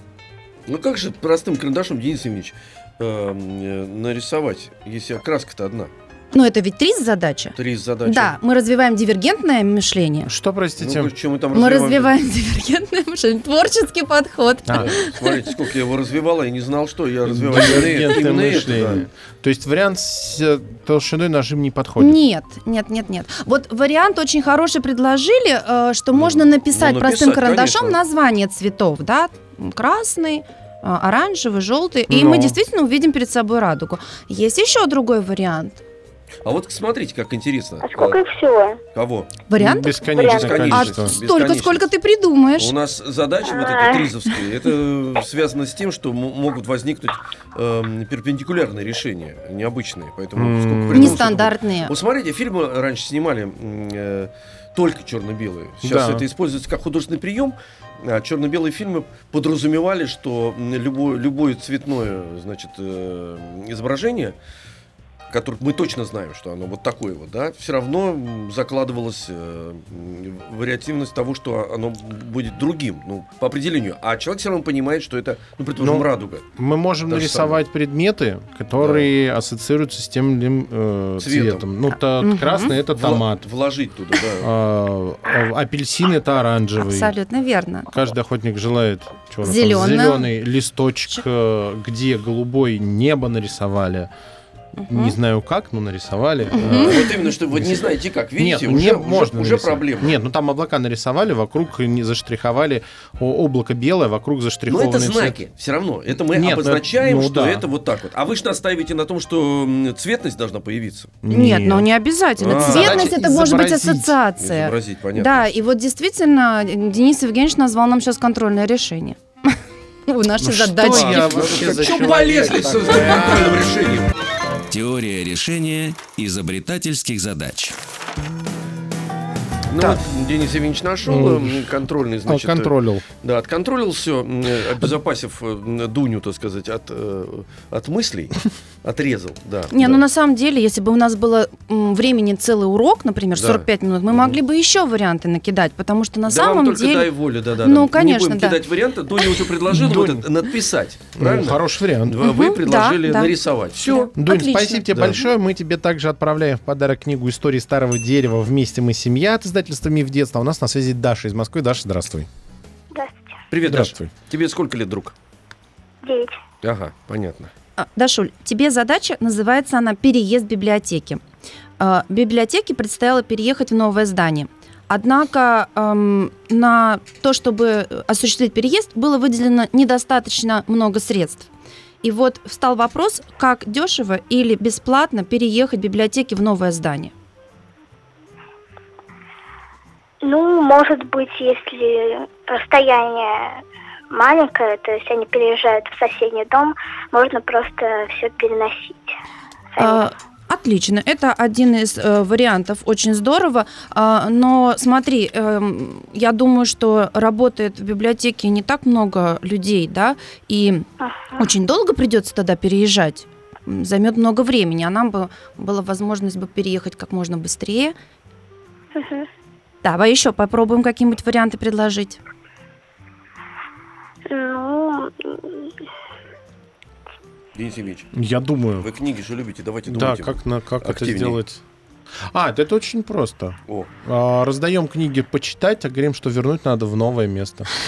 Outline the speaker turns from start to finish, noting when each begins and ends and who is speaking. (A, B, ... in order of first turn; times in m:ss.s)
0:00.7-0:05.9 A
0:06.3-0:10.3 B
0:07.6-0:08.3 A
0:10.2-0:11.1 C
0:10.8-0:12.1 A
0:11.5-0:15.5 B
0:14.6-0:14.9 C
0:14.7-0:19.1 A
0:17.2-0:22.2 C
0:22.0-0:35.8 B
0:26.1-0:28.0 A
0:32.1-0:32.6 C
0:36.4-0:38.2 A
0:37.8-0:38.8 D
0:38.9-0:39.3 A
0:39.5-0:40.0 B
0:39.6-0:41.2 C
0:40.0-0:40.5 D
0:40.2-0:41.9 A
0:40.7-0:42.7 B
0:42.6-1:04.4 A
0:43.5-0:44.1 D
0:50.3-0:51.5 C
0:50.9-0:51.9 B
0:55.8-0:56.2 C
1:05.3-1:16.4 A
1:15.8-1:23.4 C
1:17.1-1:17.6 A
1:18.8-1:19.1 A
1:21.2-1:21.7 A
1:22.2-1:22.8 B
1:22.9-1:24.5 A
1:24.4-1:27.1 C
1:26.8-1:27.9 B
1:27.9-1:34.1 C
1:29.4-1:30.3 B
1:34.8-1:35.2 B
1:34.9-1:37.8 C
1:36.5-1:37.0 B
1:36.6-1:40.1 A
1:38.4-1:45.4 C
1:44.7-1:51.2 A
1:46.3-1:47.6 C
1:51.2-1:51.9 C
1:51.3-2:01.4 B
1:52.4-1:53.2 A
1:52.4-1:54.2 C
1:54.4-1:55.5 A
2:00.4-2:03.7 C
2:00.9-2:04.1 A
2:04.7-2:07.8 E
2:09.7-2:20.0 A
2:11.0-2:11.7 C
2:12.2-2:13.0 C
2:19.7-2:28.6 B
2:23.4-2:24.4 A
2:26.2-2:34.1 A
2:29.7-2:30.3 C
2:31.2-2:32.2 C
2:32.2-2:34.9 B
2:33.8-2:42.3 C
2:34.9-2:35.2 A
2:43.5-2:45.1 A
2:43.6-2:44.1 C
2:46.0-2:46.3 D
2:46.6-2:47.5 A
2:47.8-2:51.2 B
2:51.8-3:01.5 B
3:02.0-3:07.1 B
3:10.2-3:13.2 D
3:14.1-3:18.9 D
3:19.8-3:20.0 D
3:19.8-3:30.8 B
3:31.0-3:31.4 D
3:31.4-3:38.0 B
3:39.0-3:39.2 D
3:39.8-3:42.2 B
3:44.3-3:45.1 D
3:47.6-3:48.1 A
3:48.1-3:48.9 C
3:48.8-3:51.4 A
3:49.8-3:51.6 C
3:52.3-3:57.7 C